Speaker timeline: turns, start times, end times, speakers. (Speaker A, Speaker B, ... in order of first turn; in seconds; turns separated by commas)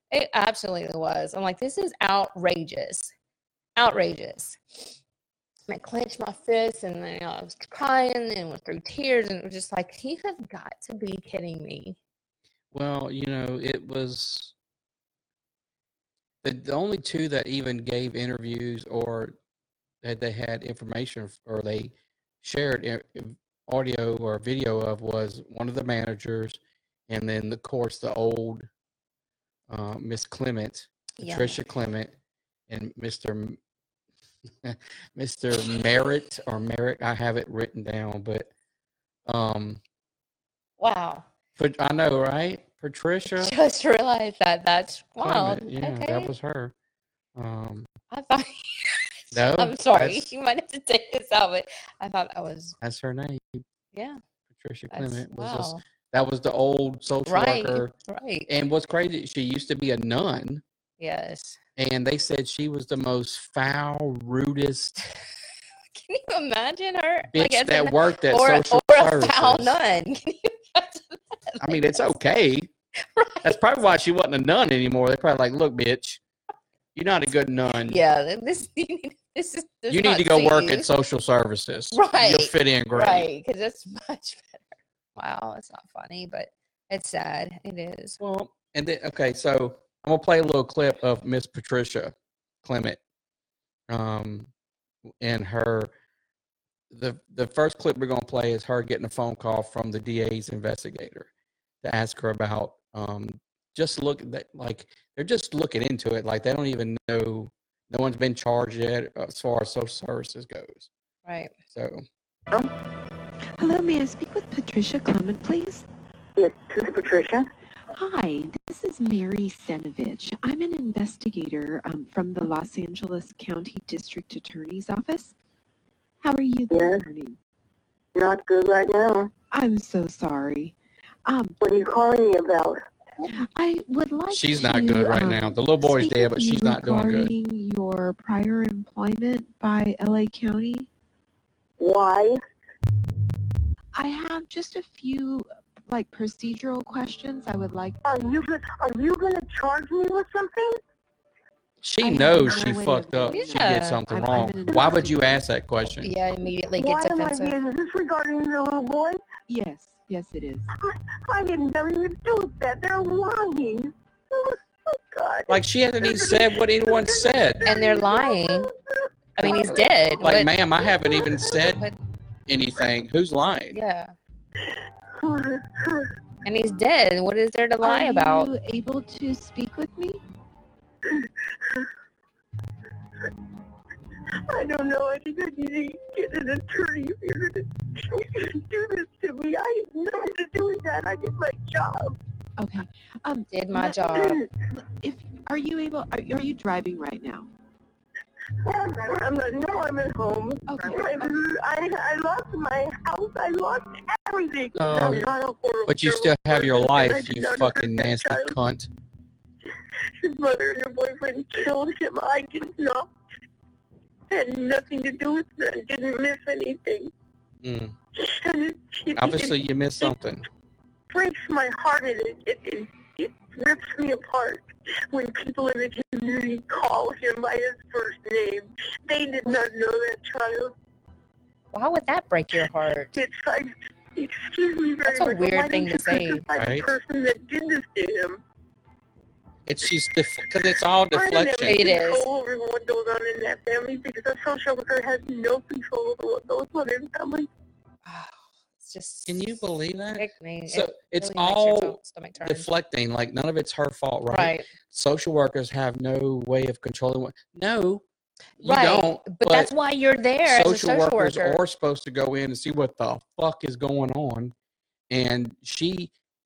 Speaker A: 0.1-3.1, Speaker A: 3.8-4.9, Speaker A: 5.7-12.0, Speaker B: 12.7-14.5, Speaker B: 16.4-19.4, Speaker B: 20.0-28.7, Speaker B: 29.7-32.1, Speaker A: 31.2-31.6, Speaker B: 32.7-33.6, Speaker B: 34.6-38.5, Speaker B: 39.2-39.8, Speaker A: 40.8-41.2, Speaker B: 41.6-43.5, Speaker A: 43.3-46.3, Speaker B: 45.2-46.7, Speaker B: 47.3-47.9, Speaker A: 48.1-52.8, Speaker B: 49.3-50.3, Speaker B: 52.8-53.6, Speaker A: 53.9-54.2, Speaker B: 54.5-57.9, Speaker A: 54.9-55.8, Speaker A: 57.3-58.5, Speaker B: 58.5-60.6, Speaker A: 61.0-61.6, Speaker B: 61.8-65.0, Speaker A: 65.9-72.2, Speaker B: 67.3-69.8, Speaker B: 71.6-72.7, Speaker A: 73.2-73.5, Speaker B: 73.4-76.2, Speaker B: 76.9-78.0, Speaker A: 77.9-80.9, Speaker B: 79.9-83.3, Speaker A: 81.9-88.2, Speaker B: 88.2-93.0, Speaker B: 93.9-94.5, Speaker B: 95.2-95.9, Speaker B: 96.9-101.3, Speaker B: 101.8-110.9, Speaker A: 111.2-111.5, Speaker B: 111.7-112.0, Speaker C: 113.6-115.9, Speaker D: 116.4-117.5, Speaker C: 117.9-125.4, Speaker C: 126.2-127.4, Speaker D: 126.7-127.0, Speaker D: 128.1-129.3, Speaker C: 129.5-131.6, Speaker D: 131.6-132.8, Speaker C: 133.3-140.9, Speaker B: 134.3-137.3, Speaker D: 141.8-142.4, Speaker C: 143.9-148.0, Speaker D: 148.0-150.8, Speaker B: 151.8-156.1, Speaker C: 152.0-155.4, Speaker A: 153.3-154.0, Speaker A: 156.0-157.6, Speaker D: 156.8-159.2, Speaker C: 159.5-160.7, Speaker D: 160.7-170.2, Speaker B: 165.5-167.7, Speaker A: 167.6-168.7, Speaker A: 169.4-170.5, Speaker B: 169.4-171.8, Speaker D: 170.8-171.7, Speaker A: 171.7-171.9, Speaker B: 172.5-173.8, Speaker A: 173.7-174.1, Speaker D: 174.6-176.1, Speaker A: 176.4-178.5, Speaker C: 177.8-180.2, Speaker D: 181.0-181.9, Speaker D: 184.5-192.2, Speaker C: 192.6-194.2, Speaker A: 193.5-194.4, Speaker D: 194.2-194.5, Speaker C: 194.7-197.5, Speaker D: 198.6-208.6, Speaker C: 200.7-201.4, Speaker B: 204.7-205.3, Speaker B: 205.9-208.9, Speaker D: 210.2-213.1, Speaker D: 214.3-217.1, Speaker B: 217.6-217.9, Speaker D: 218.2-220.1, Speaker B: 219.1-220.5, Speaker D: 221.1-230.7, Speaker A: 231.7-233.1, Speaker D: 233.1-238.4, Speaker A: 235.1-236.4, Speaker B: 236.5-236.9, Speaker B: 239.7-241.8, Speaker D: 241.1-247.5, Speaker A: 241.6-242.3, Speaker A: 248.1-252.7, Speaker B: 249.3-258.0, Speaker A: 254.3-254.7, Speaker B: 258.6-259.7, Speaker A: 258.6-261.6, Speaker B: 260.4-264.5, Speaker B: 265.1-266.1